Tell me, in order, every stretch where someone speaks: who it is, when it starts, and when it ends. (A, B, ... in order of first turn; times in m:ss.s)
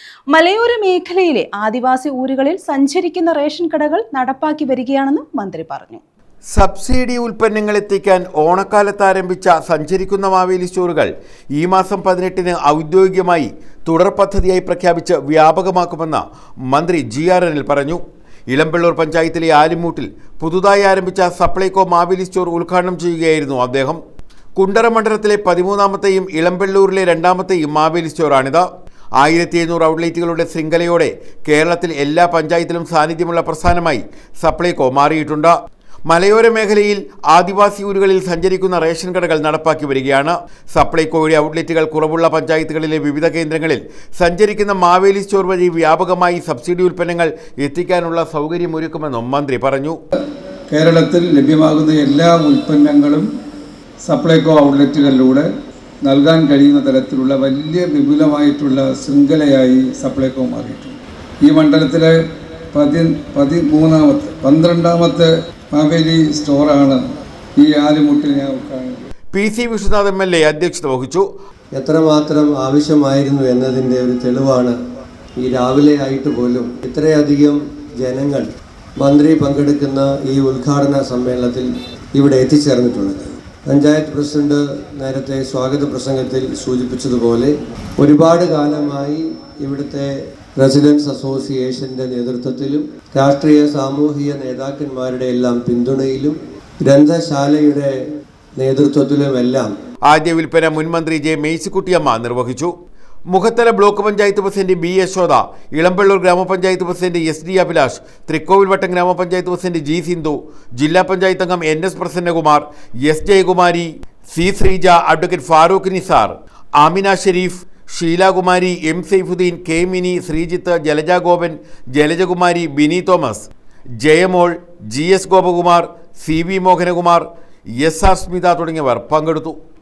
0:00.3-0:06.0 A
0:06.5-0:18.0 B
0:18.5-0:24.0 B
0:24.6-0:28.6 B
0:29.2-0:35.5 B
0:36.1-0:50.0 B
0:50.7-0:53.3 C
0:54.0-0:55.5 C
0:56.0-1:02.1 C
1:02.7-1:07.0 C
1:07.6-1:09.0 C
1:09.3-1:11.3 B
1:11.8-1:14.8 D
1:15.4-1:18.4 D
1:19.0-1:37.9 D
1:38.6-1:39.7 D
1:40.0-1:42.7 B
1:43.3-2:03.5 B
2:04.0-2:07.2 B
2:07.8-2:09.6 B